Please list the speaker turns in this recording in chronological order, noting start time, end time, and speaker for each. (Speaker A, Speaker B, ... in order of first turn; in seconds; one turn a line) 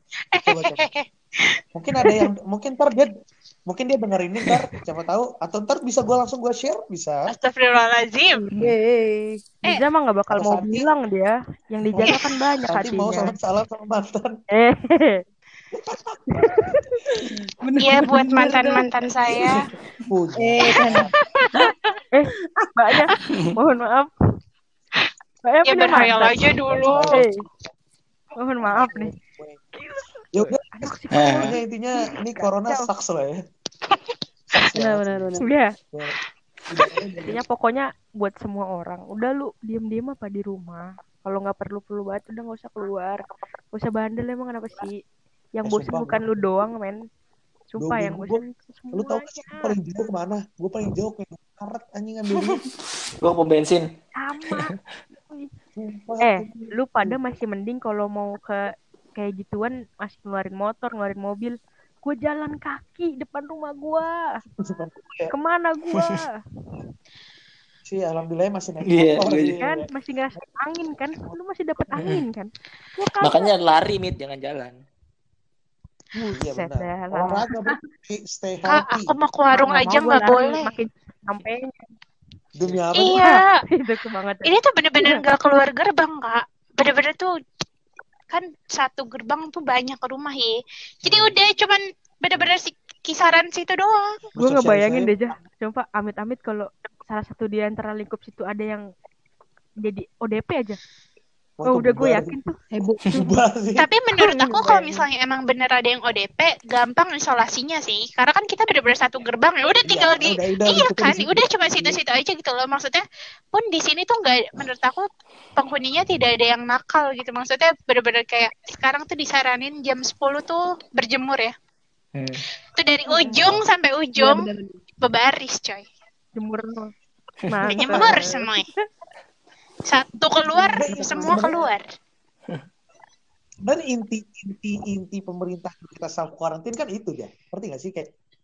Speaker A: 0.3-1.0
Speaker B: 0.4-0.8
Speaker B: 1.7-3.1
Speaker B: 3.7-7.2
Speaker A: 7.3-8.4
Speaker C: 8.5-9.4
Speaker D: 9.7-13.3
Speaker B: 10.3-10.9
Speaker B: 11.9-14.4
Speaker A: 12.0-12.3
Speaker D: 14.5-15.2
Speaker B: 15.7-16.2
Speaker D: 16.4-17.0
Speaker C: 17.6-18.9
Speaker A: 17.8-19.7
Speaker B: 20.1-21.1
Speaker C: 20.3-21.7
Speaker A: 21.2-21.8
Speaker D: 22.1-24.1
Speaker E: 23.2-23.6
Speaker D: 25.4-27.4
Speaker A: 25.6-27.2
Speaker B: 26.9-27.3
Speaker D: 28.4-29.1
Speaker B: 28.6-29.6
Speaker D: 29.7-31.6
Speaker B: 30.3-33.4
Speaker E: 31.1-31.6
Speaker D: 32.4-32.9
Speaker B: 34.5-35.4
Speaker C: 34.8-35.5
Speaker D: 35.4-35.7
Speaker B: 36.7-37.4
Speaker D: 37.2-43.2
Speaker D: 43.7-45.0
Speaker D: 45.5-47.0
Speaker B: 45.6-46.7
Speaker D: 47.7-49.8
Speaker B: 47.8-52.6
Speaker E: 53.2-53.9
Speaker D: 54.2-54.7
Speaker E: 54.5-54.8
Speaker B: 55.8-57.1
Speaker D: 56.2-64.1
Speaker B: 64.6-65.3
Speaker D: 65.3-66.3
Speaker B: 67.8-69.9
Speaker E: 68.8-69.6
Speaker D: 69.6-73.5
Speaker E: 71.9-72.3
Speaker E: 73.2-74.8
Speaker B: 76.2-79.1
Speaker D: 76.5-77.4
Speaker A: 78.7-80.7
Speaker D: 79.5-81.9
Speaker B: 82.6-83.2
Speaker A: 83.0-83.6
Speaker D: 83.0-84.5
Speaker A: 84.4-87.3
Speaker A: 88.3-94.2
Speaker E: 91.0-91.3
Speaker B: 94.3-95.2
Speaker D: 94.4-98.8
Speaker D: 99.8-100.8
Speaker B: 101.6-102.4
Speaker D: 101.6-102.5
Speaker C: 102.7-103.2
Speaker B: 103.1-103.9
Speaker A: 103.8-121.5
Speaker C: 104.2-105.0
Speaker B: 109.8-112.0
Speaker E: 122.1-122.4
Speaker A: 122.8-124.5
Speaker C: 124.2-124.8
Speaker A: 125.0-125.8
Speaker D: 126.3-126.9
Speaker D: 127.5-128.5
Speaker A: 127.7-128.6
Speaker B: 127.7-128.2
Speaker A: 129.9-131.8
Speaker C: 130.6-131.7
Speaker B: 130.7-131.7
Speaker B: 133.6-138.1